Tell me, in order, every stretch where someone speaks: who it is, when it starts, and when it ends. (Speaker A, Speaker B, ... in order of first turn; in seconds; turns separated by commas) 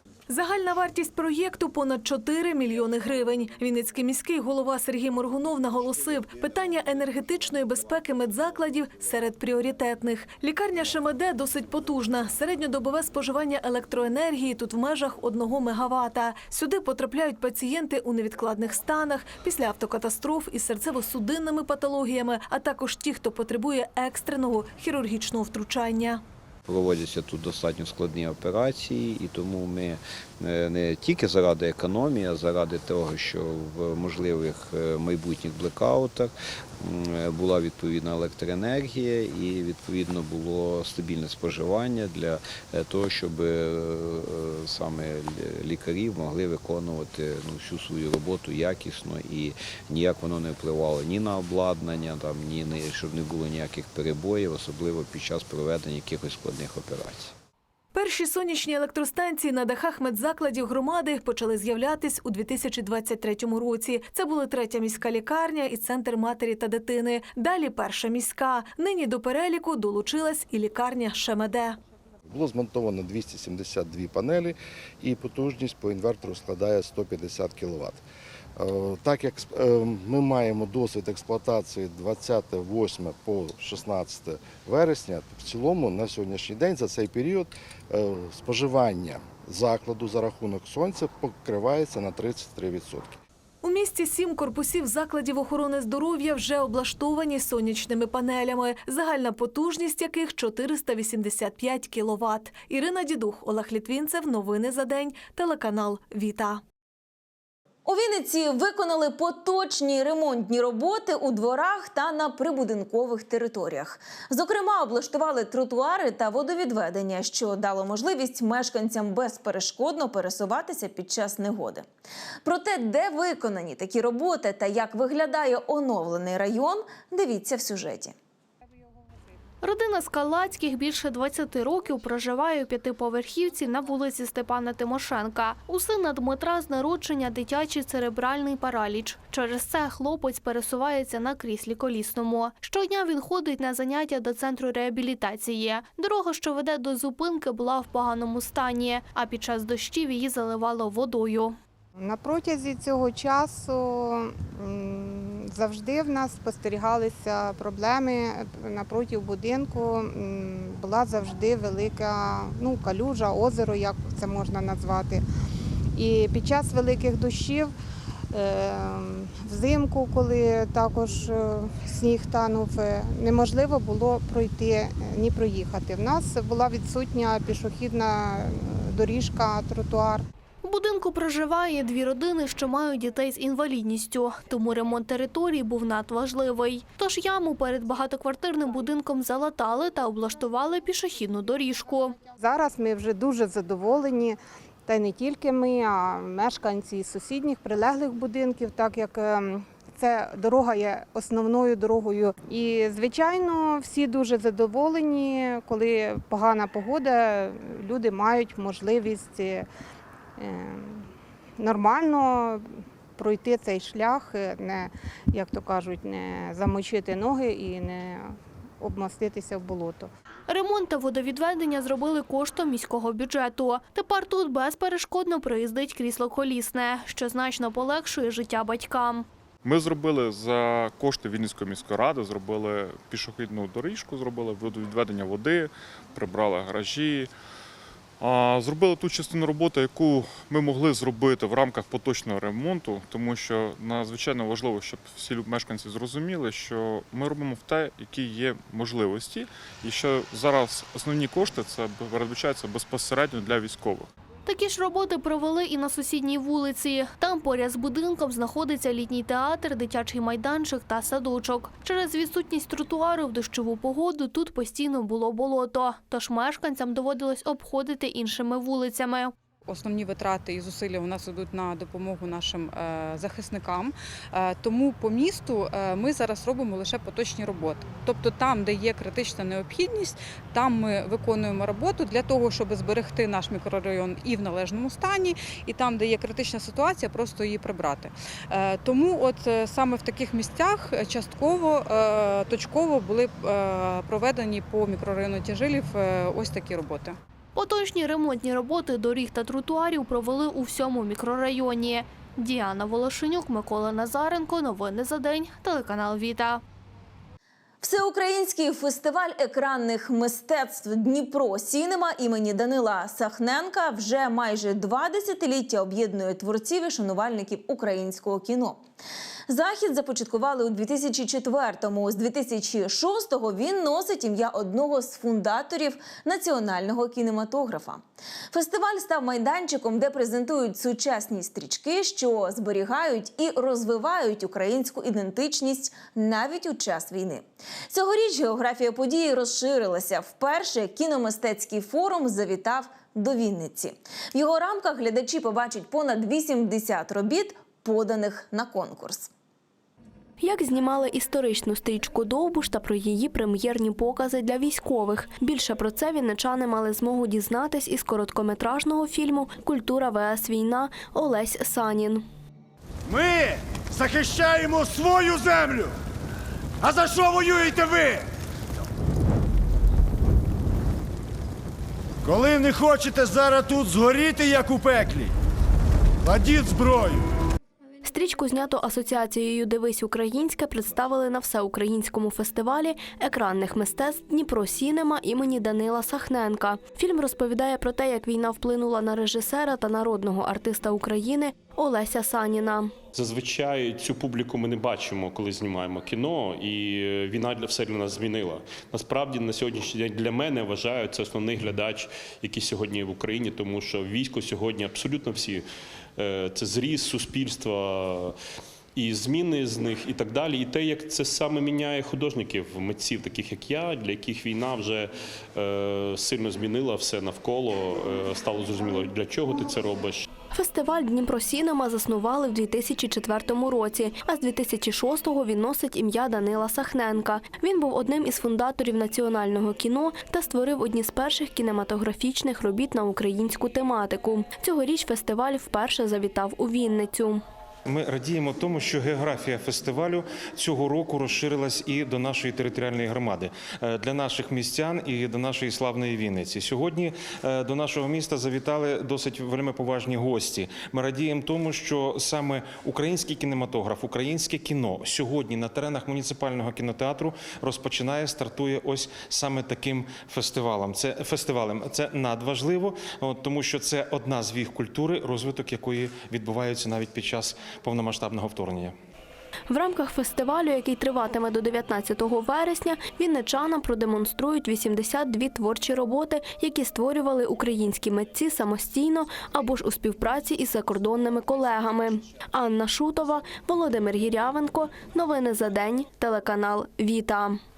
Speaker A: 0.3-26.2, Speaker B: 26.6-57.3, Speaker A: 57.9-71.8, Speaker C: 72.3-78.0, Speaker C: 78.6-93.2, Speaker A: 93.6-106.6, Speaker D: 107.8-121.8, Speaker D: 122.4-128.1, Speaker E: 129.6-151.6, Speaker F: 151.9-165.2, Speaker F: 165.9-167.7, Speaker F: 168.3-180.2, Speaker E: 180.6-192.2, Speaker F: 192.3-209.7, Speaker F: 210.4-220.1, Speaker E: 220.5-229.2, Speaker G: 229.6-237.3, Speaker G: 238.2-254.1, Speaker E: 254.4-269.3, Speaker H: 269.6-297.2, Speaker E: 297.5-306.6, Speaker D: 307.8-318.8, Speaker D: 319.5-349.3, Speaker I: 350.4-362.2, Speaker J: 363.1-365.9, Speaker J: 366.8-368.2, Speaker J: 372.2-375.3, Speaker J: 376.2-377.2, Speaker I: 378.0-393.0, Speaker K: 393.1-405.6, Speaker K: 406.2-408.3, Speaker K: 408.9-420.2, Speaker I: 420.5-437.4, Speaker L: 437.9-468.9, Speaker I: 469.7-487.6